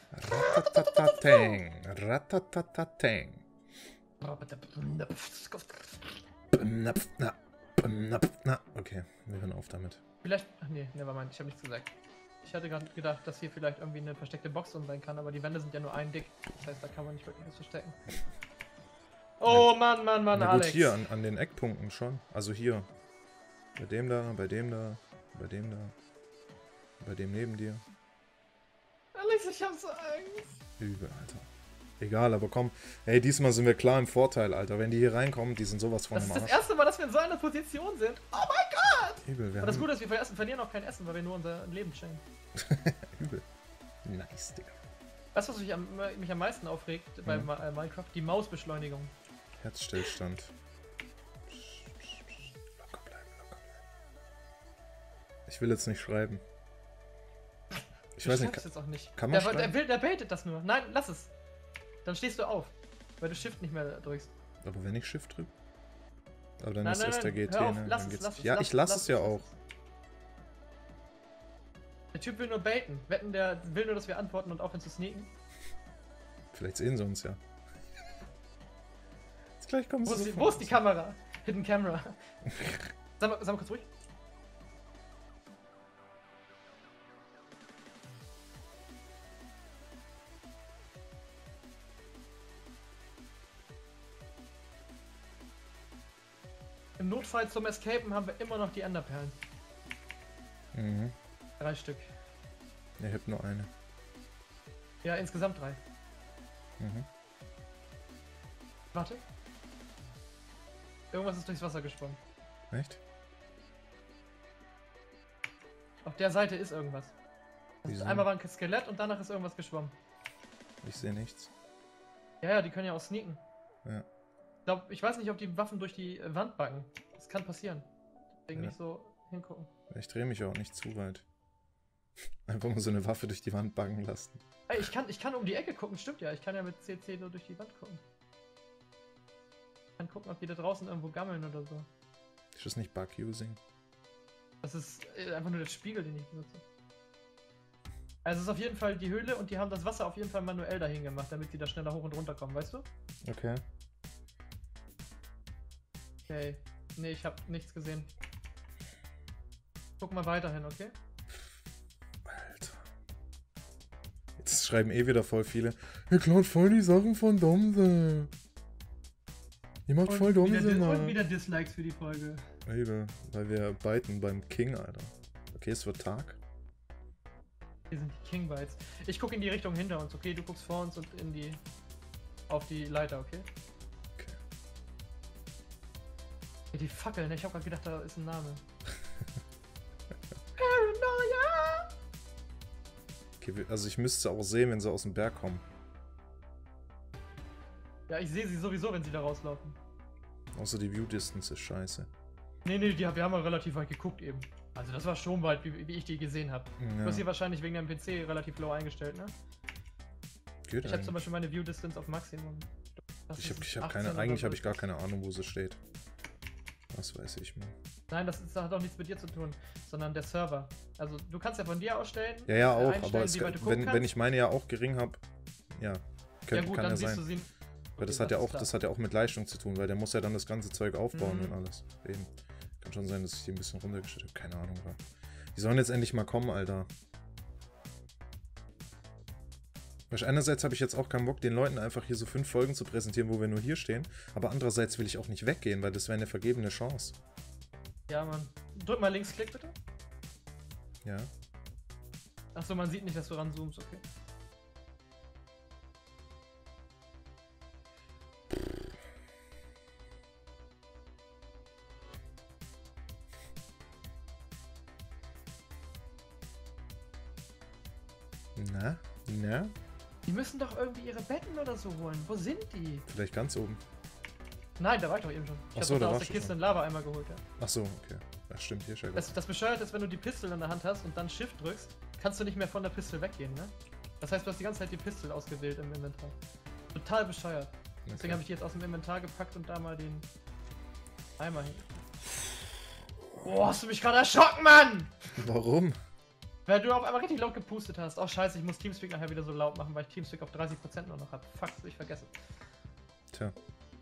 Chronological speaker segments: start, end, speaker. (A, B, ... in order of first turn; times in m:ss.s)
0:00.1-0:03.4 A
0:00.3-0:01.6 B
0:04.2-0:06.0 B
0:06.5-0:10.0 A
0:10.2-0:18.0 B
0:19.4-0:21.0 B
0:20.3-0:22.9 A
0:23.8-0:25.9 A
0:27.0-0:27.8 A
0:29.1-0:30.6 B
0:30.8-0:31.5 A
0:32.0-0:36.6 A
0:36.1-0:42.2 B
0:39.2-0:39.9 A
0:42.6-0:43.4 A
0:44.0-0:44.8 A
0:45.3-0:49.1 B
0:47.2-0:47.5 A
0:49.6-0:50.5 A
0:51.5-0:53.8 A
0:55.5-0:56.4 A
0:58.2-0:58.6 A
0:58.2-1:01.3 B
0:59.2-0:59.8 A
1:02.0-1:04.3 B
1:04.6-1:05.5 A
1:06.6-1:09.4 A
1:06.8-1:09.5 B
1:12.1-1:15.3 B
1:16.5-1:17.4 A
1:19.6-1:20.8 A
1:20.0-1:22.2 B
1:22.5-1:22.9 A
1:23.2-1:23.9 B
1:37.0-1:39.4 B
1:40.7-1:41.2 A
1:41.6-1:42.1 B
1:43.0-1:43.7 A
1:45.0-1:45.8 B
1:46.8-1:47.1 A
1:48.9-1:49.2 B
1:51.1-1:52.2 B
1:52.7-1:53.0 A
1:56.0-1:57.1 B
1:57.8-2:00.0 B
1:57.9-1:58.3 A
2:00.8-2:01.5 A
2:02.4-2:03.4 B
2:04.7-2:07.9 B
2:08.5-2:09.7 B
2:09.9-2:11.2 A
2:12.5-2:14.4 A
2:14.7-2:18.0 B
2:20.0-2:21.9 B
2:22.6-2:23.6 A
2:24.6-2:26.6 B
2:28.2-2:32.9 B
2:33.2-2:33.6 A
2:36.3-2:38.1 B
2:40.0-2:40.9 B
2:42.2-2:42.9 A
2:44.4-2:48.3 A
2:49.9-2:51.2 A
2:50.0-2:52.4 B
2:52.7-2:56.4 A
2:57.9-3:01.6 B
3:02.5-3:03.5 B
3:06.7-3:08.6 B
3:10.6-3:11.9 B
3:13.4-3:15.6 A
3:18.1-3:19.8 B
3:20.5-3:22.1 A
3:22.6-3:29.3 B
3:26.8-3:27.3 A
3:30.7-3:31.3 A
3:30.8-3:32.7 B
3:33.3-3:34.8 B
3:33.4-3:35.8 A
3:36.9-3:37.8 A
3:38.1-3:44.1 B
3:42.5-3:45.2 A
3:45.7-3:47.3 A
3:46.5-3:48.7 B
3:48.0-3:52.3 A
3:51.1-3:51.6 B
3:52.8-3:55.0 A
3:55.5-3:56.9 A
4:00.1-4:07.2 A
4:08.1-4:09.8 B
4:11.0-4:11.3 A
4:12.5-4:14.0 B
4:28.6-4:29.7 A
4:30.3-4:33.0 B
4:33.1-4:33.8 A
4:34.8-4:37.4 B
4:35.8-4:36.6 A
4:37.6-4:39.3 A
4:39.2-4:46.4 B
4:46.9-4:50.3 B
4:48.1-4:48.4 A
4:51.4-4:52.0 B
4:53.4-4:55.2 B
4:55.4-4:56.0 A
4:56.7-5:02.3 B